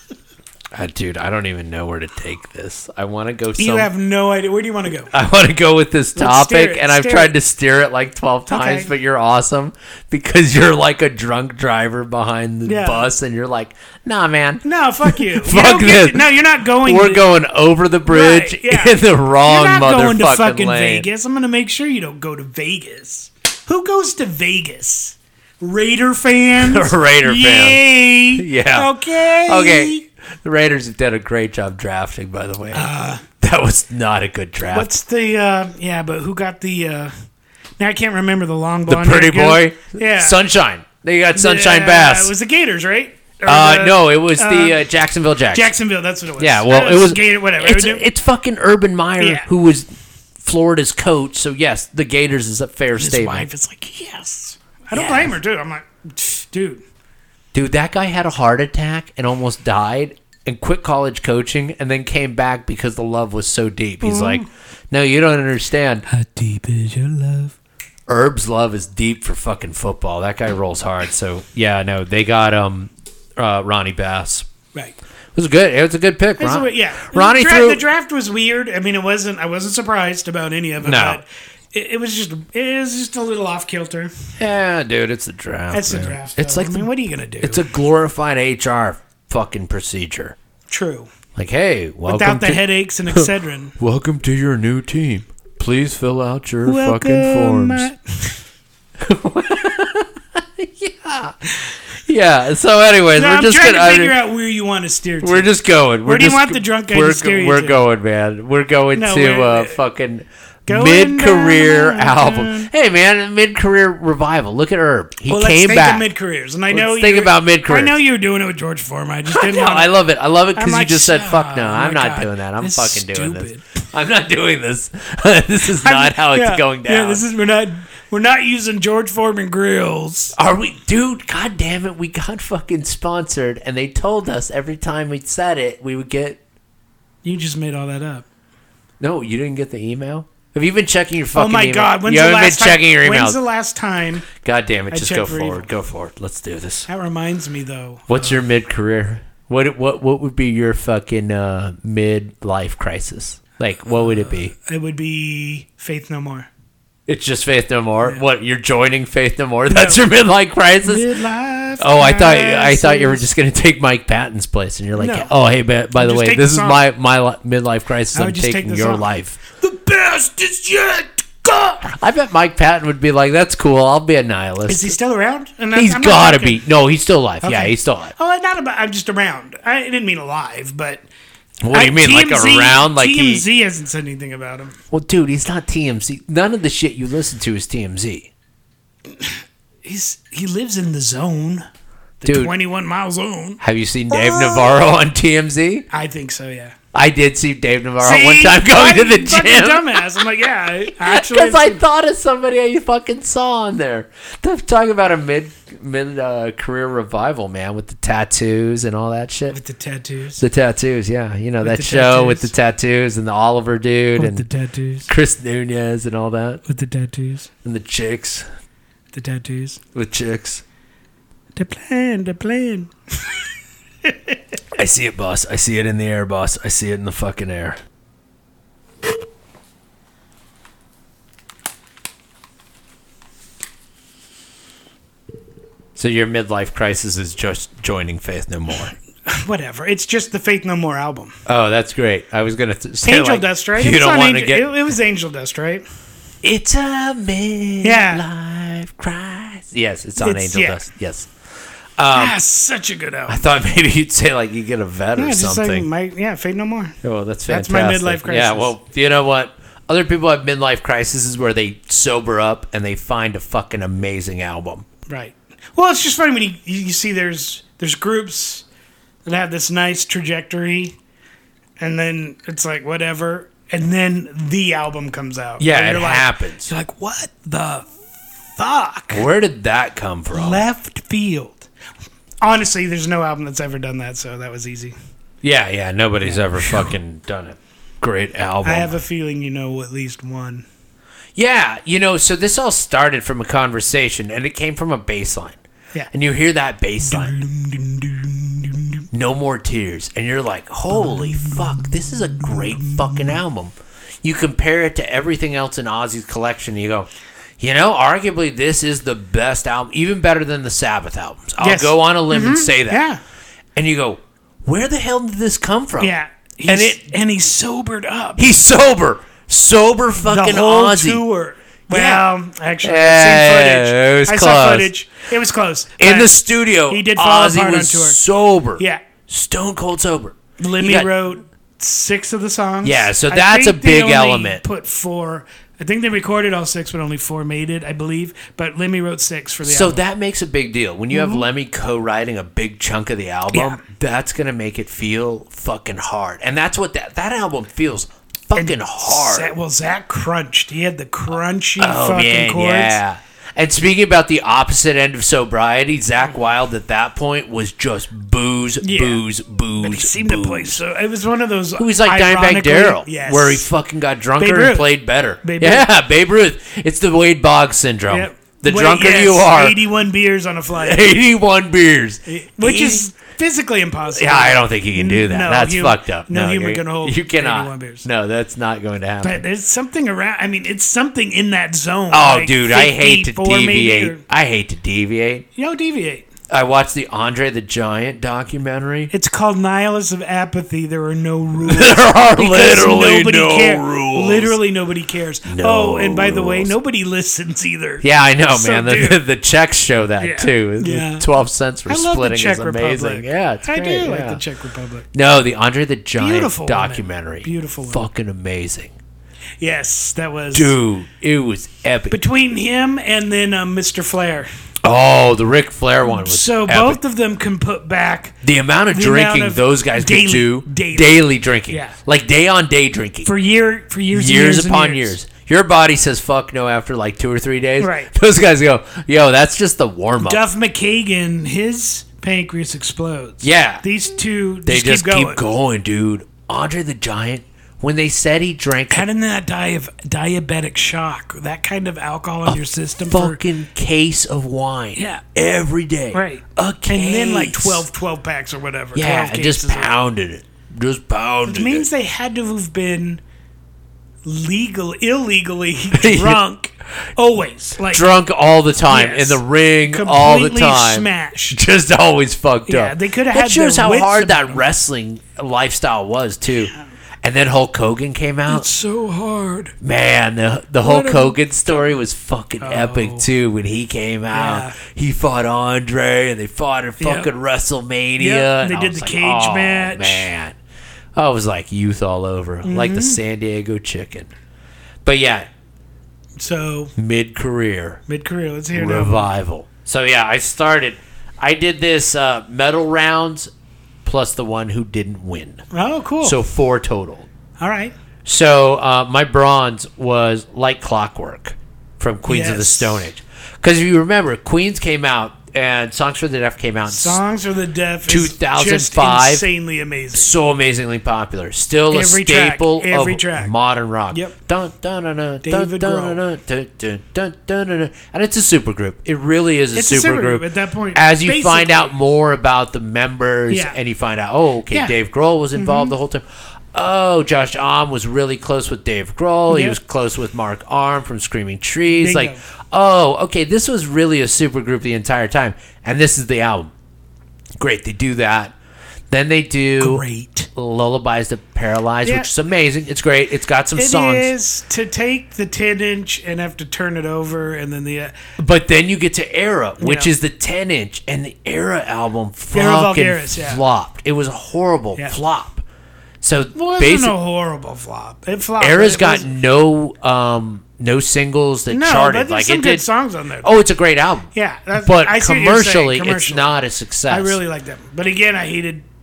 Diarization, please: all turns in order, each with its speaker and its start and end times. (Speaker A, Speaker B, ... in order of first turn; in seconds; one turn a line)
Speaker A: 0.7-3.9
Speaker B: 3.6-5.1
Speaker A: 5.1-16.3
Speaker B: 6.1-7.3
Speaker B: 8.5-8.9
Speaker B: 12.6-13.1
Speaker B: 14.6-17.3
Speaker A: 16.8-21.1
Speaker B: 18.1-30.1
Speaker A: 26.6-27.8
Speaker A: 28.4-34.9
Speaker B: 32.7-33.2
Speaker B: 34.7-37.1
Speaker B: 37.8-40.4
Speaker A: 38.9-42.3
Speaker B: 41.3-44.8
Speaker A: 43.4-45.7
Speaker B: 45.5-48.0
Speaker A: 46.4-49.9
Speaker B: 49.2-49.5
Speaker A: 50.4-53.5
Speaker B: 53.0-56.8
Speaker A: 54.9-55.4
Speaker A: 57.5-66.1
Speaker B: 64.0-64.5
Speaker B: 66.1-67.5
Speaker A: 68.1-74.5
Speaker A: 75.3-77.8
Speaker B: 76.4-84.2
Speaker A: 80.8-81.2
Speaker A: 84.4-86.9
Speaker B: 85.7-87.6
Speaker A: 87.4-90.4
Speaker B: 90.7-91.1
Speaker A: 91.3-97.9
Speaker B: 92.1-93.7
Speaker B: 96.7-98.4
Speaker A: 99.0-101.4
Speaker A: 102.1-104.2
Speaker B: 103.1-105.5
Speaker A: 105.2-116.1
Speaker B: 106.0-107.8
Speaker B: 108.9-109.8
Speaker B: 110.7-112.7
Speaker B: 115.3-119.9
Speaker A: 116.7-117.9
Speaker A: 119.3-127.2
Speaker B: 120.5-123.8
Speaker B: 125.8-130.4
Speaker A: 130.4-136.4
Speaker B: 137.2-138.2
Speaker A: 139.0-143.4
Speaker B: 141.3-144.3
Speaker A: 144.3-146.9
Speaker B: 144.9-145.7
Speaker B: 146.9-148.4
Speaker A: 148.1-154.5
Speaker B: 153.9-156.5
Speaker A: 157.1-161.1
Speaker B: 159.7-160.1
Speaker B: 160.8-163.3
Speaker A: 161.8-169.4
Speaker B: 164.9-165.3
Speaker B: 165.9-166.8
Speaker B: 168.1-171.9
Speaker A: 171.9-175.0
Speaker B: 174.7-176.6
Speaker A: 175.7-178.1
Speaker B: 177.4-181.0
Speaker A: 181.6-183.4
Speaker B: 181.7-184.8
Speaker A: 184.9-188.3
Speaker B: 189.1-191.6
Speaker B: 192.2-193.6
Speaker A: 192.2-192.5
Speaker A: 193.6-195.9
Speaker B: 194.1-194.8
Speaker B: 195.9-196.7
Speaker A: 196.9-200.2
Speaker B: 198.0-201.8
Speaker A: 201.0-209.6
Speaker B: 209.5-210.4
Speaker A: 210.4-214.4
Speaker B: 211.6-212.5
Speaker B: 214.2-215.1
Speaker A: 215.1-216.6
Speaker B: 216.6-217.5
Speaker A: 217.6-218.4
Speaker B: 219.1-219.8
Speaker A: 219.9-220.6
Speaker B: 221.6-223.4
Speaker B: 224.1-224.4
Speaker A: 224.8-227.8
Speaker A: 235.9-238.9
Speaker B: 239.3-241.4
Speaker A: 241.4-244.7
Speaker B: 243.0-245.8
Speaker A: 246.4-251.3
Speaker B: 247.8-248.2
Speaker B: 250.2-250.8
Speaker A: 252.0-252.4
Speaker B: 252.1-253.4
Speaker A: 253.3-255.9
Speaker B: 255.2-257.0
Speaker A: 257.0-264.9
Speaker B: 257.5-258.7
Speaker B: 265.1-268.6
Speaker B: 269.2-270.9
Speaker B: 271.8-277.9
Speaker A: 275.6-276.7
Speaker B: 278.5-279.3
Speaker A: 279.1-280.6
Speaker B: 280.3-281.7
Speaker B: 282.4-284.9
Speaker A: 285.4-289.0
Speaker B: 286.2-286.9
Speaker B: 288.6-290.6
Speaker A: 291.4-295.6
Speaker A: 296.1-297.4
Speaker B: 297.0-299.1
Speaker A: 299.1-313.0
Speaker B: 300.9-303.4
Speaker B: 311.6-313.2
Speaker A: 313.8-316.1
Speaker B: 316.0-318.4
Speaker A: 316.6-317.0
Speaker A: 318.4-321.2
Speaker B: 320.2-326.4
Speaker A: 321.9-322.2
Speaker A: 322.8-324.9
Speaker A: 326.0-331.1
Speaker B: 326.9-328.2
Speaker B: 328.8-329.0
Speaker B: 330.6-340.0
Speaker A: 332.8-334.6
Speaker A: 339.6-349.5
Speaker B: 341.1-341.5
Speaker B: 343.5-343.8
Speaker B: 348.6-353.0
Speaker A: 351.8-360.8
Speaker B: 358.8-359.2
Speaker B: 359.8-363.6
Speaker A: 361.8-369.8
Speaker B: 364.4-364.9
Speaker B: 365.4-365.9
Speaker B: 368.1-371.1
Speaker A: 370.7-373.1
Speaker B: 372.3-378.1
Speaker A: 374.1-379.4
Speaker B: 379.2-384.2
Speaker A: 382.1-385.4
Speaker B: 385.6-386.3
Speaker A: 386.5-389.1
Speaker B: 389.1-399.2
Speaker A: 391.6-394.6
Speaker A: 395.4-396.7
Speaker A: 398.0-404.4
Speaker B: 400.2-401.3
Speaker B: 401.9-405.1
Speaker A: 405.1-408.9
Speaker B: 406.2-408.1
Speaker B: 409.6-410.7
Speaker A: 410.5-412.2
Speaker B: 412.1-414.5
Speaker A: 414.8-417.0
Speaker B: 416.0-418.4
Speaker A: 418.4-423.3
Speaker B: 418.9-421.9
Speaker B: 423.2-425.1
Speaker A: 424.1-430.4
Speaker B: 427.8-428.1
Speaker B: 430.2-435.4
Speaker A: 433.4-433.8
Speaker A: 434.6-439.1
Speaker B: 438.9-443.4
Speaker A: 442.4-447.9
Speaker B: 444.9-445.2
Speaker B: 446.1-449.9
Speaker A: 448.9-451.9
Speaker B: 451.4-453.2
Speaker B: 454.2-458.1
Speaker A: 455.9-456.4
Speaker A: 457.9-468.7
Speaker B: 458.9-461.6
Speaker B: 462.7-464.6
Speaker B: 468.5-469.7
Speaker A: 469.8-480.6
Speaker B: 470.8-471.9
Speaker B: 472.6-473.3
Speaker B: 474.3-474.8
Speaker B: 477.0-477.3
Speaker B: 478.2-480.3
Speaker A: 481.1-484.3
Speaker B: 482.6-483.2
Speaker A: 485.0-485.5
Speaker B: 486.4-486.9
Speaker A: 486.9-488.0
Speaker B: 488.1-489.3
Speaker A: 488.7-493.5
Speaker A: 494.1-495.6
Speaker B: 495.7-496.4
Speaker A: 496.2-497.3
Speaker B: 497.6-497.9
Speaker A: 498.2-507.2
Speaker B: 502.3-503.1
Speaker B: 506.9-510.4
Speaker A: 508.1-509.4
Speaker A: 510.1-536.7
Speaker B: 511.9-513.5
Speaker B: 515.4-516.2
Speaker B: 519.7-521.9
Speaker B: 523.5-523.8
Speaker B: 525.6-525.9
Speaker B: 529.5-529.8
Speaker B: 531.9-532.4
Speaker A: 537.6-538.5
Speaker A: 539.1-544.3
Speaker B: 539.8-540.5
Speaker B: 542.0-542.3
Speaker B: 543.8-548.1
Speaker A: 548.4-555.6
Speaker B: 549.8-550.1
Speaker B: 552.5-553.6
Speaker A: 556.2-557.1
Speaker B: 556.5-559.3
Speaker A: 558.6-562.9
Speaker B: 561.7-563.5
Speaker A: 563.4-567.4
Speaker B: 564.3-566.6
Speaker B: 567.1-568.9